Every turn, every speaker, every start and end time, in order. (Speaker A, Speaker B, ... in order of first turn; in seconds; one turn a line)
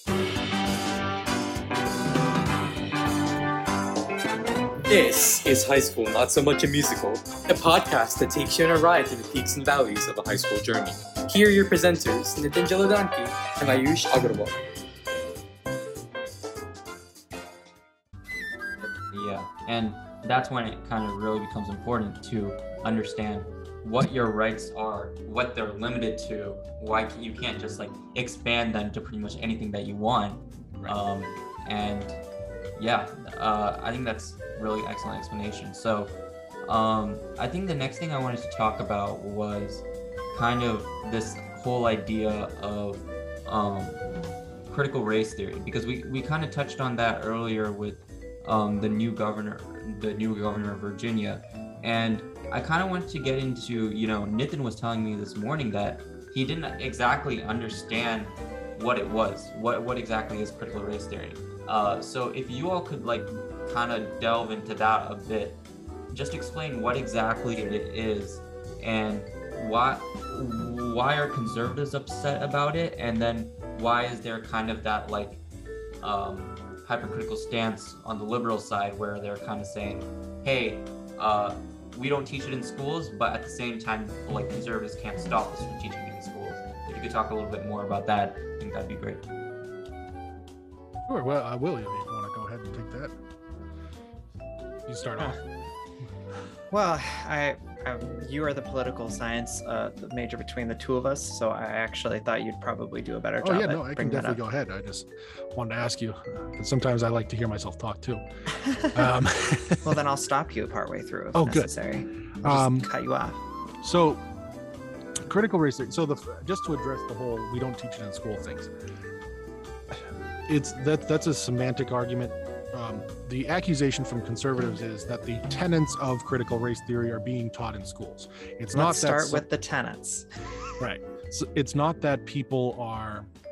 Speaker A: 4.9-14.5
Speaker B: 19.1-32.2
Speaker B: 32.8-44.0
Speaker B: 44.7-75.4
Speaker B: 76.0-89.2
Speaker C: 91.1-93.1
Speaker C: 94.9-95.4
Speaker D: 96.7-104.4
Speaker C: 103.4-108.2
Speaker D: 108.7-109.1
Speaker C: 108.9-110.0
Speaker D: 109.8-113.4
Speaker C: 111.3-111.7
Speaker C: 112.4-112.9
Speaker C: 113.8-114.2
Speaker C: 115.2-118.7
Speaker C: 119.9-129.4
Speaker D: 128.7-130.3
Speaker C: 130.8-133.3